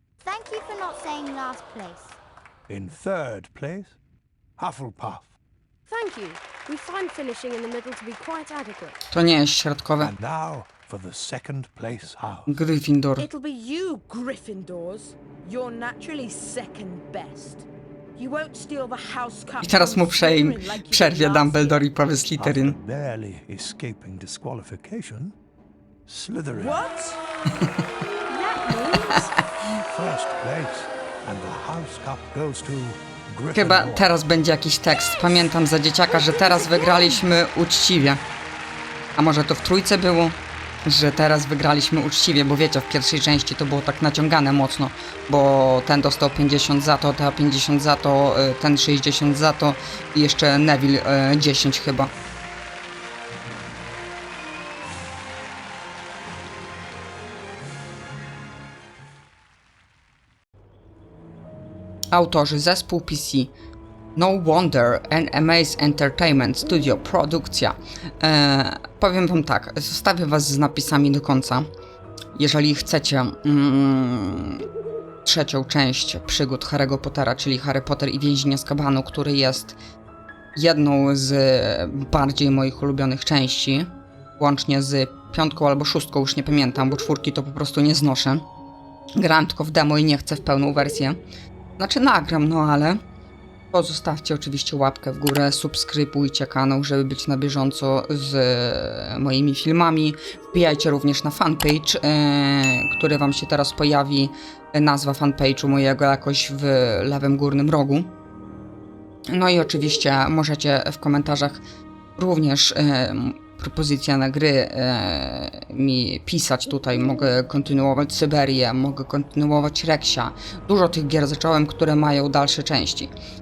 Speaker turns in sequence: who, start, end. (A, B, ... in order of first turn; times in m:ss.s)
0:00.2-0:02.2 A
0:02.7-0:04.0 B
0:04.6-0:05.4 B
0:05.9-0:09.0 C
0:09.1-0:10.1 D
0:10.0-0:12.6 B
0:12.5-0:13.3 D
0:13.2-0:21.9 E
0:19.6-0:22.8 D
0:22.4-0:25.4 B
0:26.0-0:26.9 B
0:26.5-0:27.2 E
0:28.3-0:29.3 C
0:29.8-0:34.1 B
0:33.5-0:38.2 D
0:36.6-0:37.1 E
0:39.2-0:52.1 D
1:02.1-1:03.5 D
1:04.2-1:11.7 D
1:12.3-1:14.6 D
1:15.2-1:19.8 D
1:20.5-1:28.4 D
1:29.2-1:31.2 D
1:31.8-1:33.0 D
1:33.7-1:48.1 D
1:49.3-1:51.6 D
1:52.2-2:03.1 D